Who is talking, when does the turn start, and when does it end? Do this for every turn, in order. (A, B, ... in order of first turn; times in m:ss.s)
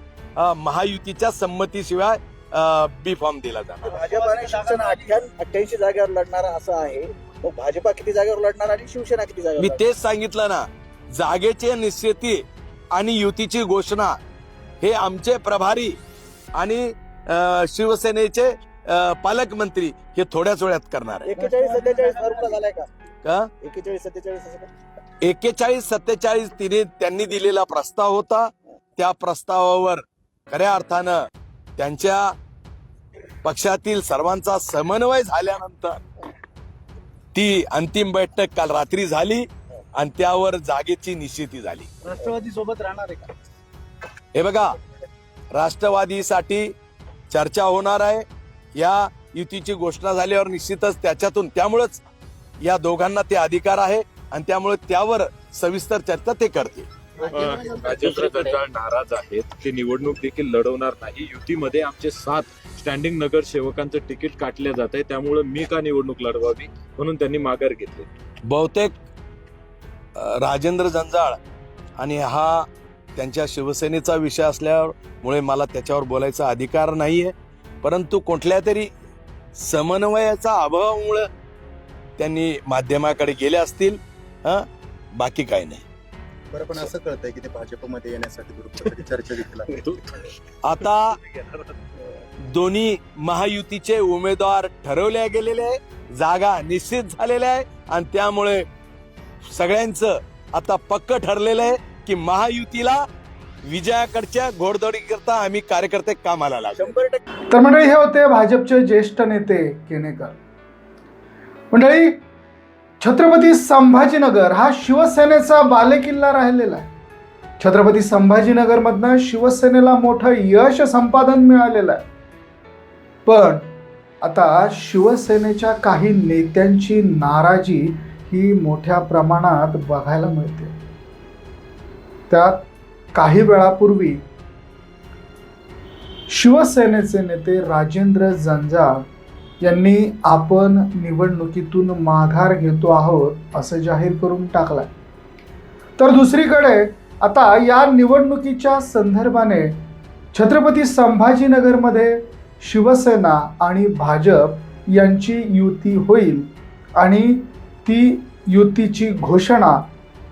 0:00.4-0:04.0 A
0:03.8-0:09.8 B
0:04.0-0:05.3 C
0:09.6-0:14.2 A
0:14.8-0:16.0 A
0:16.5-0:21.3 A
0:21.2-0:22.9 B
0:21.4-0:22.6 C
0:23.2-0:23.5 A
0:23.6-0:24.7 B
0:25.2-0:31.2 A
0:31.8-0:32.3 A
0:33.4-0:36.0 A
0:37.3-0:41.9 A
0:42.0-0:43.3 C
0:44.3-0:44.7 A
0:45.5-0:46.7 A
0:47.3-0:52.0 A
0:52.6-0:56.9 A
0:57.2-0:58.6 C
0:57.3-1:08.1 D
1:08.5-1:08.9 A
1:10.2-1:11.4 A
1:12.0-1:18.9 A
1:19.6-1:21.3 A
1:22.2-1:25.8 A
1:26.5-1:30.0 E
1:30.6-1:31.2 A
1:31.2-1:31.6 D
1:32.5-1:38.6 A
1:39.5-1:43.0 A
1:43.6-1:47.0 A
1:46.7-1:47.2 B
1:47.5-1:50.4 F
1:51.7-1:52.2 F
1:53.0-1:56.9 F
1:57.6-2:02.0 F
2:03.2-2:03.7 F
2:04.2-2:10.8 F
2:12.3-2:14.2 F
2:16.3-2:19.0 F
2:19.6-2:24.9 F
2:26.0-2:29.8 F
2:30.3-2:39.9 F